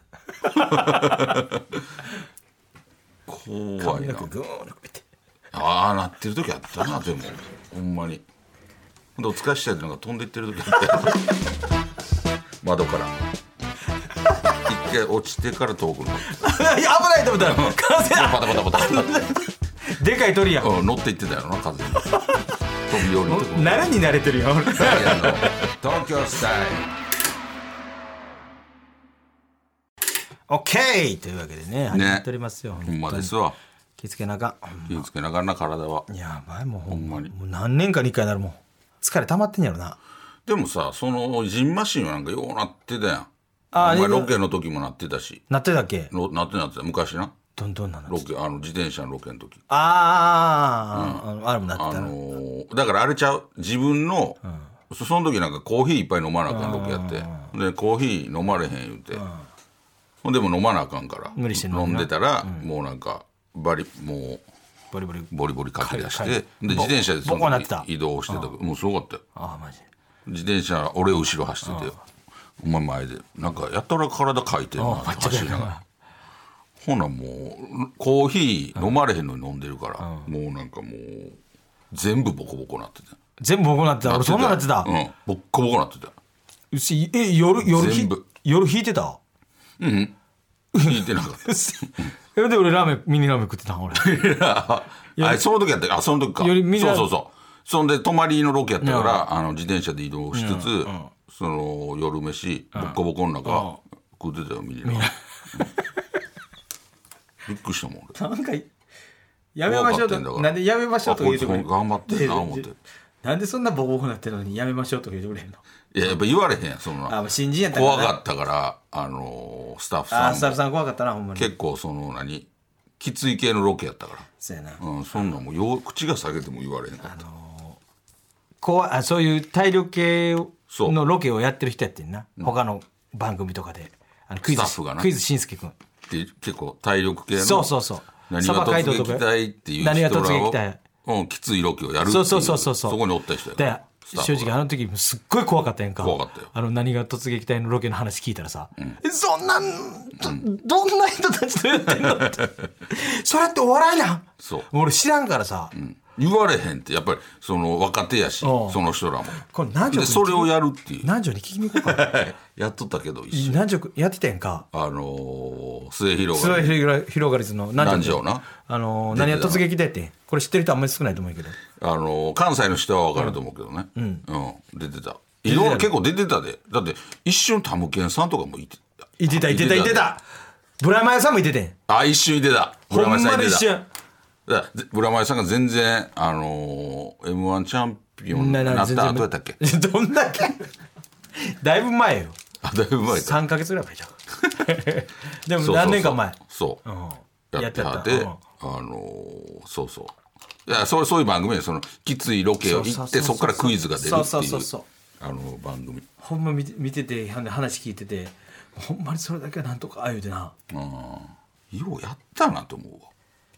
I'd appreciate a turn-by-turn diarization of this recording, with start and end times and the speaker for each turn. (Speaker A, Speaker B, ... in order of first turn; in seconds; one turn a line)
Speaker A: 0.5-1.3
Speaker B: 0.5-1.8
Speaker B: 3.3-4.3
Speaker A: 3.8-5.0
Speaker B: 5.5-8.2
Speaker B: 9.2-11.3
Speaker B: 12.6-13.2
Speaker B: 14.6-16.6
Speaker A: 16.3-20.7
Speaker B: 17.4-19.1
Speaker B: 20.6-22.1
Speaker A: 22.0-22.4
Speaker B: 22.9-23.9
Speaker A: 23.2-25.7
Speaker B: 24.7-26.9
Speaker A: 30.5-33.3
Speaker B: 31.9-32.2
Speaker B: 32.8-33.6
Speaker A: 34.0-35.0
Speaker B: 34.9-36.1
Speaker A: 36.1-40.0
Speaker B: 36.9-37.3
Speaker B: 40.5-45.4
Speaker A: 43.7-44.3
Speaker A: 45.5-46.1
Speaker B: 46.1-47.3
Speaker A: 47.5-48.2
Speaker B: 48.1-49.6
Speaker A: 49.7-52.1
Speaker B: 50.9-54.4
Speaker B: 54.9-59.2
Speaker A: 56.5-57.5
Speaker B: 60.2-64.4
Speaker A: 61.3-62.6
Speaker A: 64.9-68.5
Speaker B: 65.3-69.2
Speaker A: 69.3-69.8
Speaker B: 70.2-71.9
Speaker A: 71.6-72.0
Speaker B: 72.6-75.7
Speaker A: 74.8-75.8
Speaker B: 76.8-81.4
Speaker A: 80.0-80.3
Speaker B: 81.9-83.2
Speaker A: 83.4-84.9
Speaker B: 84.0-86.1
Speaker A: 86.7-89.2
Speaker B: 87.6-88.2
Speaker B: 89.8-90.1
Speaker A: 90.7-94.3
Speaker B: 90.8-92.1
Speaker B: 93.9-105.6
Speaker A: 95.2-95.4
Speaker A: 96.4-97.1
Speaker A: 98.8-99.2
Speaker A: 100.3-101.1
Speaker A: 102.7-103.8
Speaker A: 104.8-105.2
Speaker B: 107.4-108.1
Speaker A: 108.1-108.7
Speaker A: 109.5-112.7
Speaker B: 109.7-112.8
Speaker A: 113.2-115.6
Speaker B: 115.9-117.2
Speaker A: 117.1-118.2
Speaker B: 117.7-120.6
Speaker A: 120.1-121.5
Speaker B: 121.3-122.5
Speaker B: 123.0-124.3
Speaker A: 124.4-124.8
Speaker B: 124.8-127.2
Speaker A: 127.0-127.8
Speaker A: 128.6-135.7
Speaker B: 130.7-131.0
Speaker B: 134.4-135.1
Speaker B: 136.1-137.7
Speaker A: 137.3-139.2
Speaker B: 138.3-144.5
Speaker A: 139.8-140.8
Speaker A: 142.1-143.0
Speaker A: 143.5-155.7
Speaker B: 146.0-146.5
Speaker B: 151.9-152.4
Speaker B: 154.4-154.7
Speaker B: 155.7-161.1
Speaker A: 158.4-158.8
Speaker A: 159.4-162.1
Speaker B: 161.7-163.6
Speaker A: 163.3-164.7
Speaker B: 164.7-166.8
Speaker A: 166.3-171.6
Speaker B: 167.8-168.5
Speaker B: 169.1-169.7
Speaker B: 171.7-180.1
Speaker A: 173.9-174.2
Speaker A: 175.4-175.9
Speaker A: 179.2-180.2
Speaker A: 180.8-181.8
Speaker B: 181.9-183.7
Speaker A: 182.9-183.8
Speaker B: 184.4-189.6
Speaker A: 188.3-190.7
Speaker A: 191.4-192.4
Speaker B: 192.6-193.4
Speaker A: 193.1-198.4
Speaker B: 195.6-196.8
Speaker B: 197.5-200.1
Speaker B: 200.7-204.7
Speaker A: 202.6-204.9
Speaker B: 205.2-206.1
Speaker A: 206.2-210.5
Speaker B: 210.7-213.1